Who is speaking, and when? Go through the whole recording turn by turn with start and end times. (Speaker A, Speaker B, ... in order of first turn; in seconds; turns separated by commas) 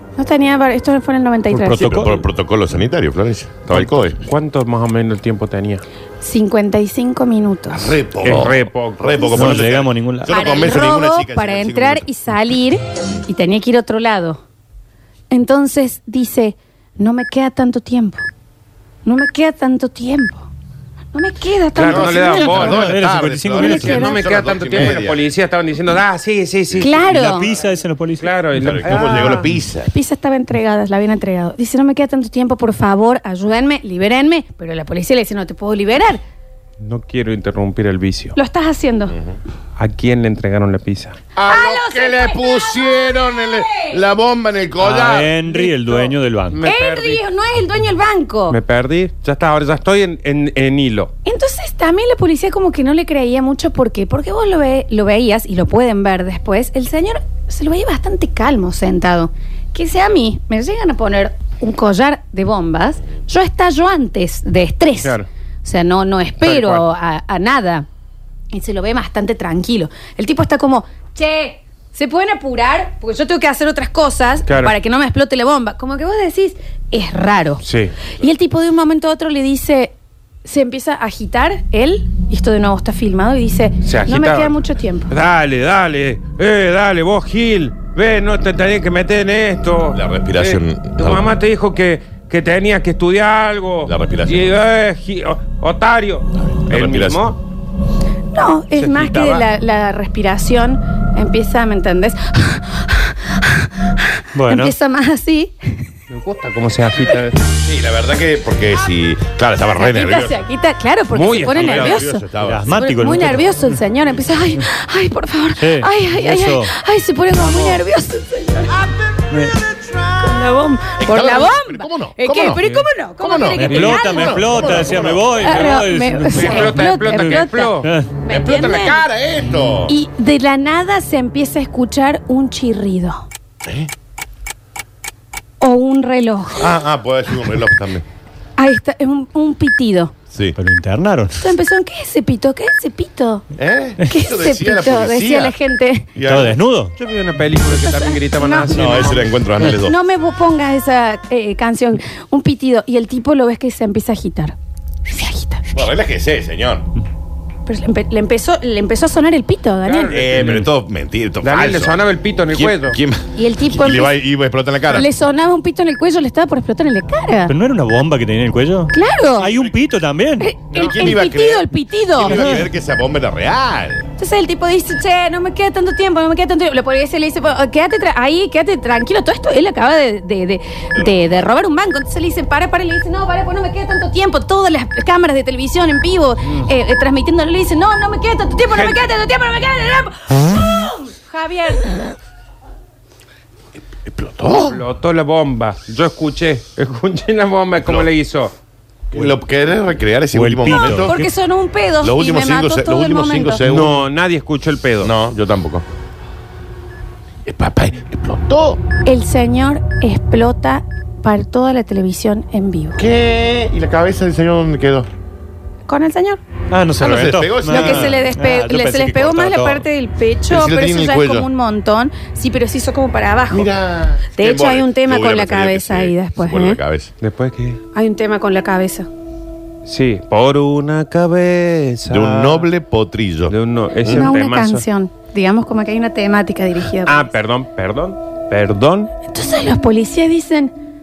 Speaker A: 0.2-2.0, Speaker B: 1.5-2.2, Speaker C: 1.8-4.2, Speaker D: 4.2-5.8, Speaker A: 6.2-7.9, Speaker C: 7.7-12.1, Speaker D: 8.2-9.5, Speaker B: 9.3-10.4, Speaker A: 10.3-14.4, Speaker A: 15.3-18.2, Speaker A: 19.1-20.5, Speaker A: 21.1-22.7, Speaker D: 21.8-22.9, Speaker C: 21.8-25.2, Speaker B: 22.5-24.0, Speaker A: 23.5-24.2, Speaker D: 23.6-27.1, Speaker A: 26.8-27.5, Speaker B: 27.0-28.3, Speaker D: 28.2-29.5, Speaker C: 28.6-29.9, Speaker A: 29.8-36.2, Speaker D: 36.8-38.4, Speaker A: 38.4-39.2, Speaker C: 39.1-39.4, Speaker D: 39.8-41.2, Speaker C: 41.4-45.4, Speaker A: 41.4-44.0, Speaker B: 44.8-46.6, Speaker A: 45.5-46.1, Speaker D: 46.5-47.2, Speaker A: 46.6-48.6, Speaker D: 48.5-51.1, Speaker A: 51.2-67.9, Speaker D: 65.0-65.3, Speaker D: 66.4-66.9, Speaker A: 68.5-85.1, Speaker D: 74.5-74.7, Speaker D: 77.6-77.9, Speaker D: 83.8-84.6, Speaker D: 85.1-97.4, Speaker C: 89.9-91.3, Speaker C: 93.8-94.6, Speaker C: 96.6-97.2, Speaker A: 98.3-105.9, Speaker D: 98.8-99.5, Speaker B: 104.3-104.7, Speaker D: 106.1-107.4, Speaker C: 107.6-110.4, Speaker A: 109.8-118.9, Speaker D: 111.1-112.2, Speaker C: 111.5-112.7, Speaker B: 112.4-113.7, Speaker B: 115.6-116.7, Speaker B: 119.3-119.7, Speaker C: 119.7-120.1, Speaker A: 120.2-124.7, Speaker C: 121.0-122.6, Speaker D: 122.6-122.9, Speaker C: 123.2-125.4, Speaker B: 123.6-128.1, Speaker D: 123.7-124.0, Speaker A: 125.4-129.0, Speaker D: 126.3-127.9, Speaker C: 128.3-129.9, Speaker A: 129.9-133.3, Speaker C: 133.6-133.9, Speaker A: 135.6-136.7, Speaker C: 136.6-138.1, Speaker A: 138.6-140.1, Speaker B: 140.6-141.5, Speaker A: 141.4-143.5, Speaker C: 143.6-145.6, Speaker A: 144.1-146.1, Speaker C: 146.2-146.6, Speaker B: 146.2-147.0, Speaker D: 147.0-149.3, Speaker A: 147.7-149.2, Speaker C: 148.7-149.9, Speaker A: 149.7-155.8, Speaker C: 155.7-156.9, Speaker A: 157.7-160.3, Speaker D: 159.8-160.6, Speaker C: 160.1-162.0, Speaker D: 161.4-163.0, Speaker C: 162.5-165.1, Speaker A: 163.3-164.2, Speaker A: 164.9-167.5, Speaker B: 167.5-170.5, Speaker A: 168.9-169.6, Speaker A: 170.4-172.6, Speaker C: 170.7-174.1, Speaker B: 172.3-172.7, Speaker A: 174.2-192.1, Speaker C: 180.9-181.4, Speaker D: 188.7-189.0, Speaker C: 193.9-194.8, Speaker D: 194.6-198.5, Speaker C: 199.1-201.2, Speaker B: 200.3-201.3, Speaker A: 200.7-203.6, Speaker C: 202.0-204.0, Speaker D: 203.6-205.1, Speaker C: 205.0-205.9, Speaker C: 207.4-208.8, Speaker A: 209.1-213.0, Speaker C: 213.0-215.1, Speaker A: 215.9-216.4, Speaker B: 216.7-219.8, Speaker C: 217.0-218.2, Speaker A: 217.7-223.7, Speaker C: 220.5-221.5, Speaker C: 223.5-227.1, Speaker A: 224.3-226.8, Speaker D: 227.2-227.8, Speaker A: 227.9-229.1, Speaker D: 229.9-232.7, Speaker C: 232.1-234.3, Speaker D: 233.5-234.8, Speaker A: 234.0-237.3, Speaker D: 237.1-239.1, Speaker A: 239.3-240.7